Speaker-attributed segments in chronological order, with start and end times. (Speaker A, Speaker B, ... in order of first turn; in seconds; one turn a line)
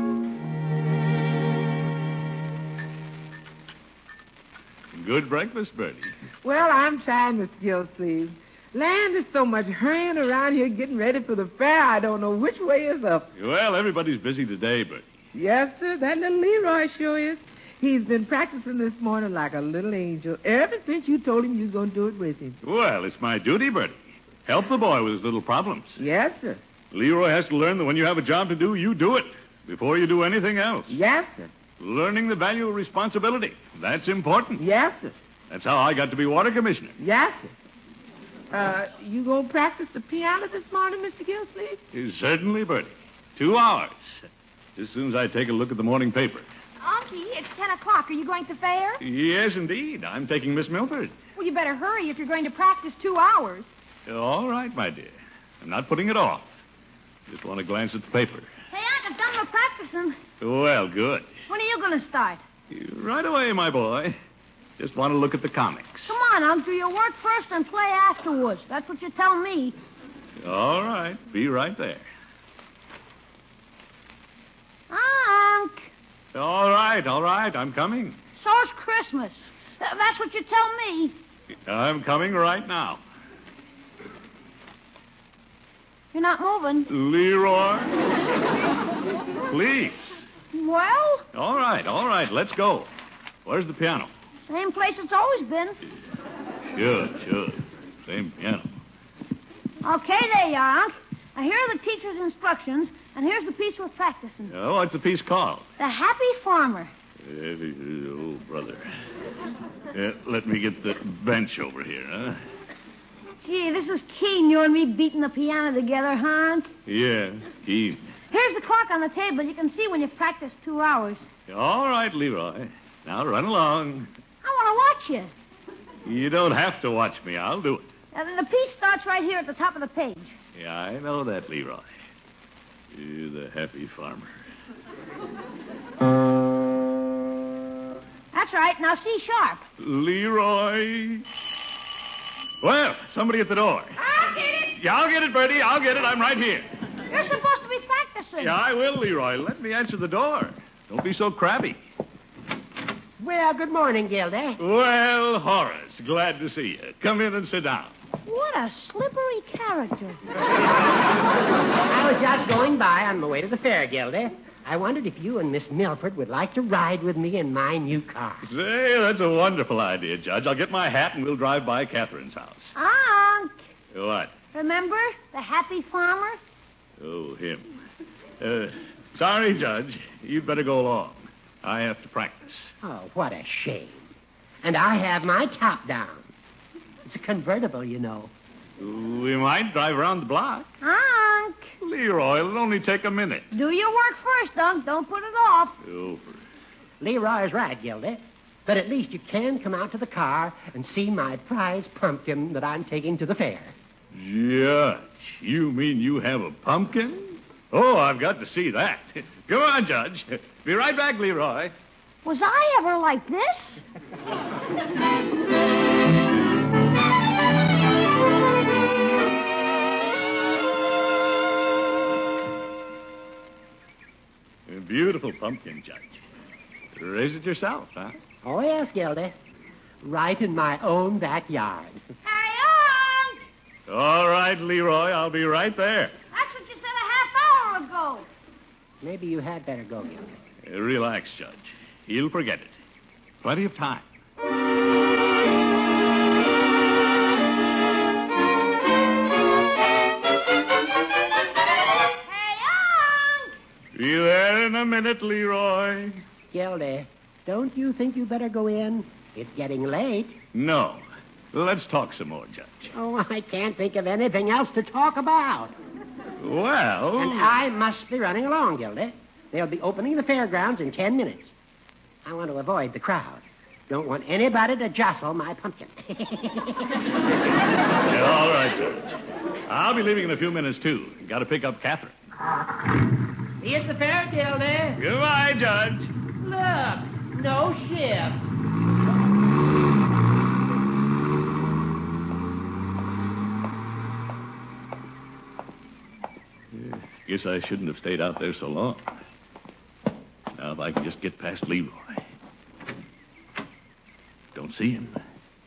Speaker A: 4.9-6.1
Speaker B: 6.4-13.3
Speaker A: 13.3-15.1
Speaker B: 15.3-22.6
Speaker A: 22.6-25.9
Speaker B: 26.0-26.6
Speaker A: 26.9-30.9
Speaker B: 30.9-31.5
Speaker A: 31.8-34.6
Speaker B: 34.6-35.1
Speaker A: 35.5-36.9
Speaker B: 37.0-37.5
Speaker B: 38.5-41.8
Speaker A: 41.9-44.0
Speaker A: 44.8-46.5
Speaker C: 46.8-49.0
Speaker A: 49.0-51.1
Speaker C: 51.4-53.7
Speaker A: 54.1-56.5
Speaker A: 57.3-58.5
Speaker D: 58.7-60.2
Speaker A: 60.4-61.3
Speaker D: 61.5-62.4
Speaker A: 62.7-64.2
Speaker A: 64.8-66.1
Speaker D: 66.1-69.8
Speaker A: 70.4-72.0
Speaker D: 74.9-75.9
Speaker A: 76.3-78.2
Speaker D: 78.4-81.1
Speaker A: 81.7-83.0
Speaker D: 86.1-86.9
Speaker A: 86.9-88.0
Speaker A: 89.5-90.0
Speaker D: 90.5-91.2
Speaker A: 91.3-92.9
Speaker A: 93.4-94.1
Speaker D: 94.5-95.8
Speaker A: 96.7-98.7
Speaker D: 99.8-104.5
Speaker A: 104.5-105.7
Speaker D: 105.8-106.9
Speaker A: 107.2-108.9
Speaker A: 109.9-112.4
Speaker D: 113.4-116.7
Speaker A: 116.8-118.1
Speaker D: 118.3-121.3
Speaker A: 121.5-124.1
Speaker D: 124.4-125.3
Speaker A: 126.0-127.9
Speaker D: 128.1-130.3
Speaker A: 130.5-131.9
Speaker A: 132.9-134.3
Speaker D: 138.3-139.6
Speaker A: 139.8-141.2
Speaker A: 142.6-144.0
Speaker D: 144.0-144.6
Speaker A: 144.7-146.7
Speaker D: 147.1-148.6
Speaker A: 148.4-151.8
Speaker E: 153.2-154.6
Speaker A: 154.6-157.9
Speaker D: 158.2-160.2
Speaker E: 161.9-168.4
Speaker A: 168.4-172.7
Speaker D: 172.7-173.6
Speaker A: 173.9-174.3
Speaker D: 174.5-176.4
Speaker A: 177.0-177.7
Speaker A: 178.4-182.7
Speaker E: 182.8-184.1
Speaker E: 184.6-186.3
Speaker E: 187.1-188.3
Speaker A: 188.8-190.7
Speaker D: 190.8-191.7
Speaker A: 191.8-193.5
Speaker D: 193.5-195.8
Speaker A: 195.8-196.4
Speaker E: 197.0-203.7
Speaker A: 204.1-211.7
Speaker D: 212.2-213.8
Speaker A: 224.7-226.2
Speaker A: 226.9-228.2
Speaker E: 228.4-229.3
Speaker E: 230.0-232.0
Speaker D: 232.2-233.4
Speaker A: 233.9-236.1
Speaker D: 236.3-238.2
Speaker E: 239.0-240.3
Speaker A: 240.6-242.7
Speaker A: 243.4-244.0
Speaker D: 252.0-253.5
Speaker A: 253.9-256.2
Speaker E: 256.5-260.4
Speaker A: 260.5-262.9
Speaker E: 262.9-265.7
Speaker A: 266.4-267.5
Speaker E: 267.1-271.5
Speaker E: 272.2-277.0
Speaker A: 278.0-279.2
Speaker A: 279.7-282.1
Speaker E: 283.6-285.0
Speaker A: 285.0-286.1
Speaker E: 286.4-288.4
Speaker A: 296.7-299.1
Speaker A: 300.5-302.2
Speaker A: 304.5-305.2